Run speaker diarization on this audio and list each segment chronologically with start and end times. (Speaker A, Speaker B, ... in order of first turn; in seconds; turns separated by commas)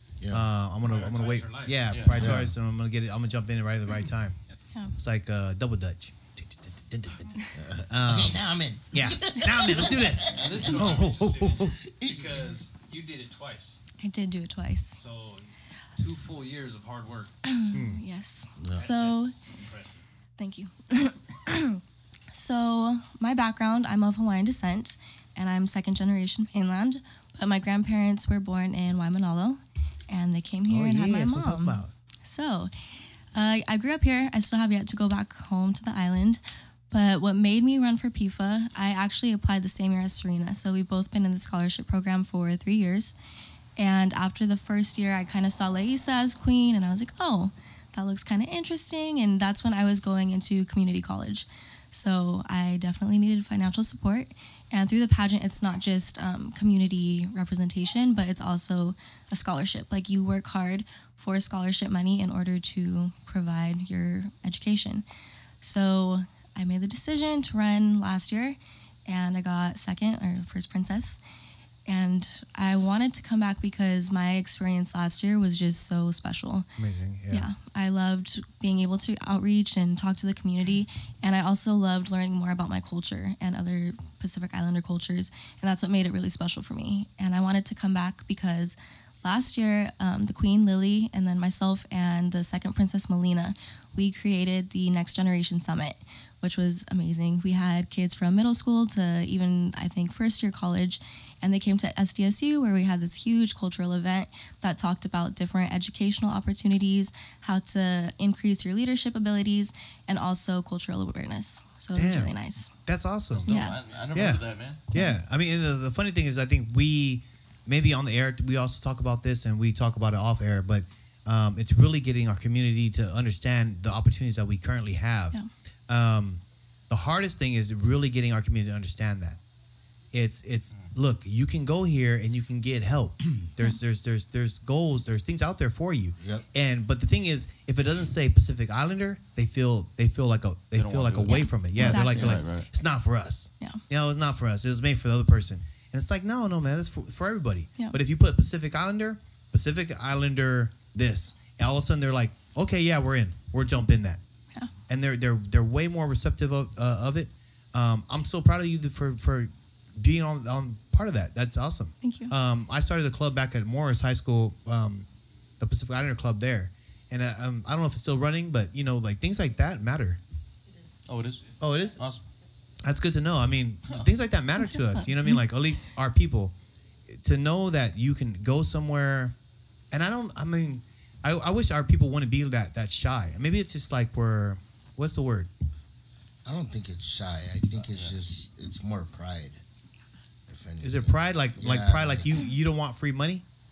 Speaker A: 0.2-0.5, Speaker B: 0.3-4.4, Speaker C: 0.8-1.9, Speaker D: 1.9-2.4, Speaker A: 2.1-2.5, Speaker B: 5.0-11.8, Speaker A: 7.5-11.0, Speaker C: 10.2-13.8, Speaker A: 11.8-12.5, Speaker E: 14.0-15.0, Speaker C: 15.0-17.3, Speaker E: 17.4-19.4, Speaker B: 17.7-18.0, Speaker A: 18.6-18.9, Speaker C: 18.8-20.0, Speaker E: 20.4-21.8, Speaker E: 22.3-32.7, Speaker B: 30.7-31.9, Speaker E: 33.3-43.2, Speaker E: 43.8-65.0, Speaker E: 65.6-71.2, Speaker E: 71.9-76.7, Speaker B: 76.8-77.5, Speaker E: 77.3-112.7, Speaker B: 112.0-113.5, Speaker D: 113.3-114.8, Speaker E: 113.5-113.8, Speaker B: 114.1-125.3, Speaker B: 125.9-129.4, Speaker B: 130.1-154.2, Speaker A: 136.2-136.5, Speaker D: 140.8-142.7, Speaker E: 141.3-142.4, Speaker A: 141.9-142.3, Speaker B: 154.9-165.1, Speaker E: 162.0-162.3, Speaker B: 165.6-170.2, Speaker D: 171.1-172.2, Speaker B: 171.6-172.0, Speaker B: 172.8-176.5, Speaker E: 174.9-175.3, Speaker B: 177.1-179.3, Speaker B: 179.9-185.5, Speaker A: 186.4-189.6, Speaker D: 187.8-188.1, Speaker A: 190.5-192.3, Speaker B: 190.8-193.4